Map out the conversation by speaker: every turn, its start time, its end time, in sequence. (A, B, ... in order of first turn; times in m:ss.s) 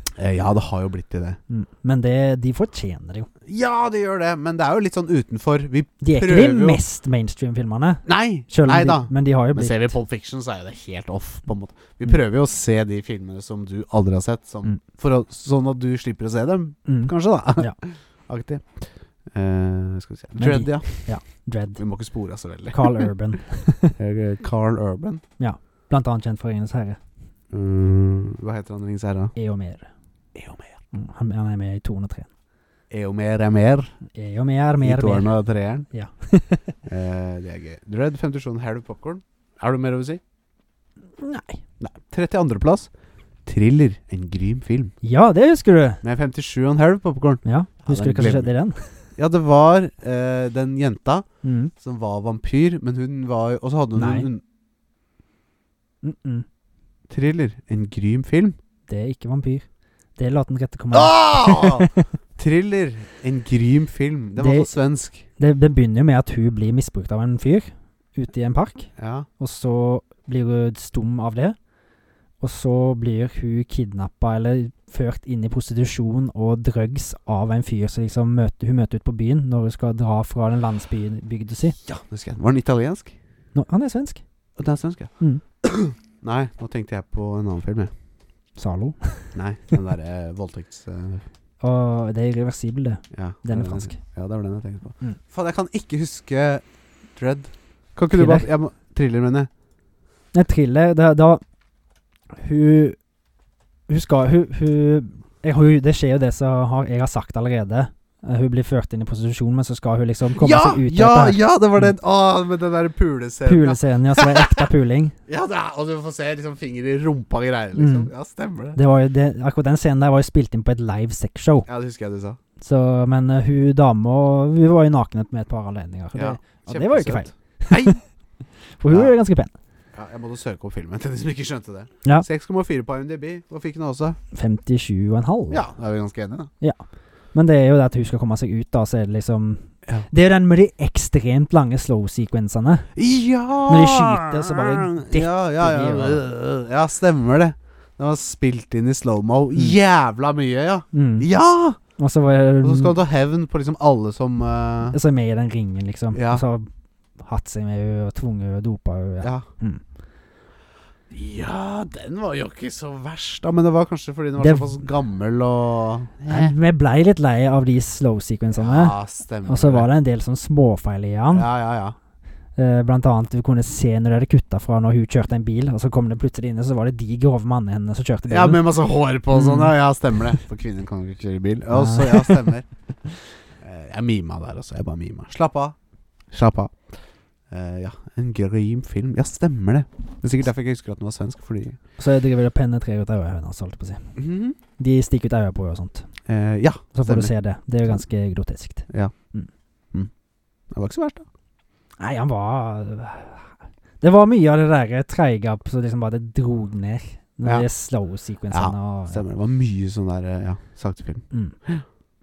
0:00.2-0:01.4 A
0:01.5-0:03.3 B
0:03.5-0:06.8 A
0:06.0-0:09.9 B
0:08.0-0:21.2 A
0:16.9-0:17.8 B
0:20.4-0:21.8 B
0:21.8-0:23.1 A
0:22.7-0:24.0 B
0:24.0-0:25.2 A
0:25.4-0:27.0 B
0:27.5-0:29.3 A
0:29.4-0:29.9 B
0:30.4-0:30.8 A
0:30.9-0:32.3 B
0:32.9-0:33.9 A
0:34.1-0:35.3 B
0:34.8-0:35.9 A
0:35.9-0:36.8 B
0:36.9-0:40.2 A
0:41.2-0:41.6 B
0:41.8-0:42.9 A
0:43.5-0:44.9 A
0:45.0-0:46.0 B
0:46.0-0:48.5 A
0:47.4-0:48.9 B
0:49.2-0:51.3 A
0:51.4-0:51.7 B
0:51.8-0:54.4 A
0:54.0-0:54.3 B
0:56.0-0:56.5 B
0:57.1-0:58.6 A
0:58.9-0:59.7 B
1:00.2-1:02.1 B
1:00.9-1:05.2 A
1:04.4-1:04.7 B
1:05.4-1:11.6 B
1:09.0-1:09.3 A
1:12.4-1:21.8 B
1:21.8-1:23.2 A
1:23.6-1:24.2 B
1:24.6-1:27.9 A
1:28.6-1:29.4 B
1:29.3-1:31.2 A
1:31.6-1:34.0 B
1:33.1-1:36.6 A
1:37.2-1:39.5 A
1:38.1-1:38.5 B
1:40.3-1:41.4 B
1:42.4-1:43.0 B
1:43.9-1:51.9 B
1:50.4-1:54.7 A
1:53.4-1:55.2 B
1:55.3-1:58.8 A
1:57.8-1:58.1 B
1:58.8-2:01.7 B
2:01.7-2:02.4 A
2:02.6-2:08.0 B
2:06.1-2:08.0 A
2:08.8-2:09.5 B
2:10.0-2:14.2 A
2:14.3-2:15.7 B
2:15.5-2:16.5 A
2:17.3-2:22.9 B
2:23.0-2:31.8 A
2:23.7-2:26.2 B
2:30.9-2:31.3 B
2:32.0-2:33.0 B
2:32.6-2:35.0 A
2:34.9-2:36.7 B
2:36.1-2:36.4 A
2:37.2-2:39.8 B
2:41.1-2:46.6 A
2:44.4-2:44.8 B
2:46.3-2:51.4 B
2:48.6-2:49.9 A
2:51.3-2:52.0 A
2:52.6-2:58.6 B
2:58.3-3:02.7 A
2:59.3-2:59.7 B
3:01.7-3:02.5 B
3:03.6-3:05.8 A
3:06.3-3:06.8 A
3:07.5-3:11.8 A
3:12.0-3:14.2 B
3:14.2-3:14.6 A
3:14.8-3:16.1 B
3:16.3-3:17.3 A
3:16.9-3:19.5 B
3:18.9-3:19.1 A
3:20.7-3:21.3 A
3:22.0-3:29.2 B
3:28.5-3:31.8 A